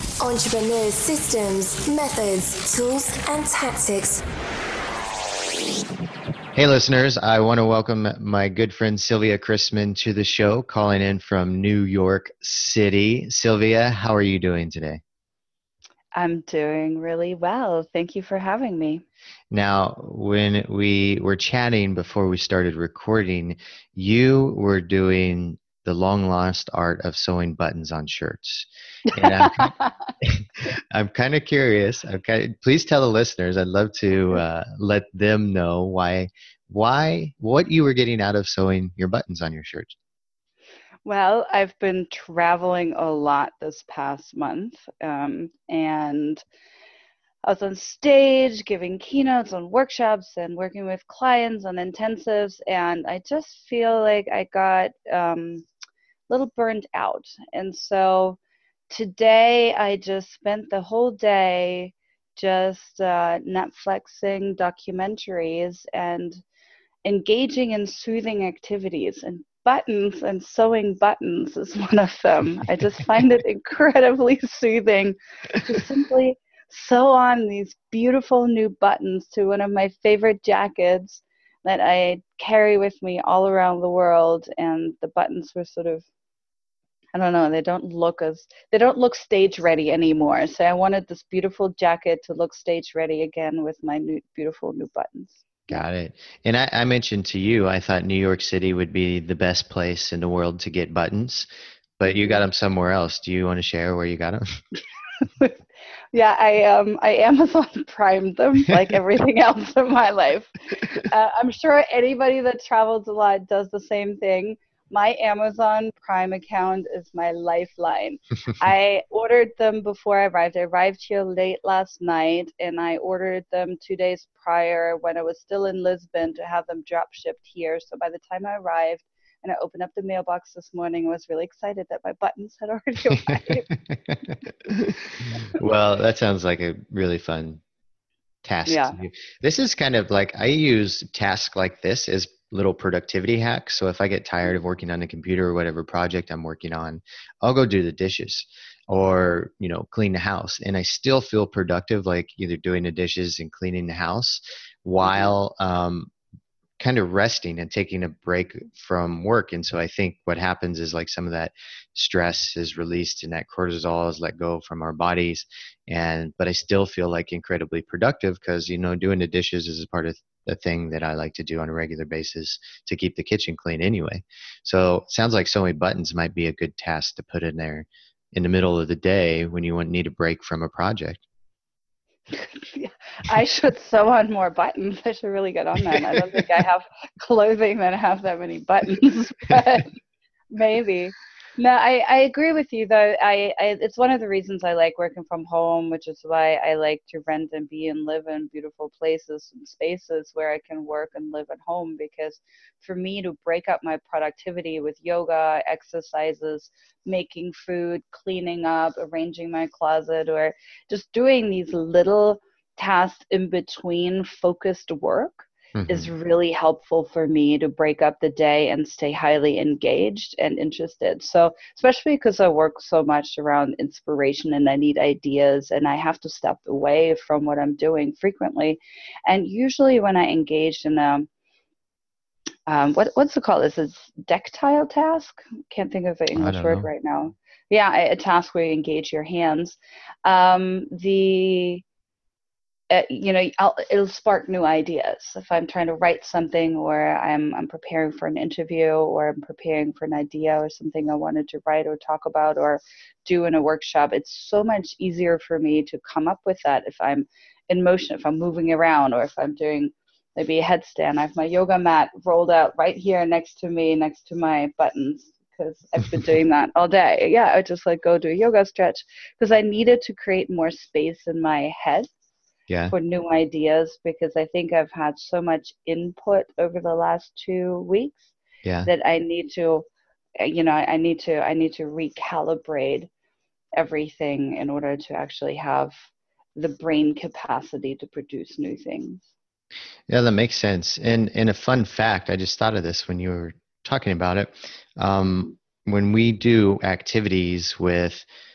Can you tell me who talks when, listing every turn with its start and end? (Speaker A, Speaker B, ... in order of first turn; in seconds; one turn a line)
Speaker A: 0.2-4.2
Speaker B: 6.5-15.0
Speaker C: 16.1-19.0
Speaker B: 19.5-29.7
Speaker C: 29.1-30.1
Speaker B: 30.2-39.9
Speaker C: 41.0-46.4
Speaker C: 47.4-55.7
Speaker C: 56.3-58.4
Speaker C: 58.9-66.4
Speaker C: 67.0-86.0
Speaker C: 87.1-95.8
Speaker B: 95.7-101.5
Speaker B: 102.0-104.4
Speaker C: 102.1-102.4
Speaker C: 105.2-105.5
Speaker C: 106.1-133.7
Speaker B: 133.3-137.6
Speaker B: 138.4-156.1
Speaker C: 138.7-139.0
Speaker C: 155.0-155.3
Speaker B: 156.8-181.2
Speaker C: 182.3-189.9
Speaker B: 185.9-186.4
Speaker C: 190.5-231.3
Speaker B: 215.7-216.1
Speaker C: 232.7-241.8
Speaker B: 236.3-236.9
Speaker C: 242.9-272.1
Speaker B: 272.7-272.9
Speaker C: 272.9-279.9
Speaker B: 278.6-278.9
Speaker C: 280.4-283.1
Speaker C: 283.7-285.9
Speaker C: 286.6-289.3
Speaker B: 290.1-298.2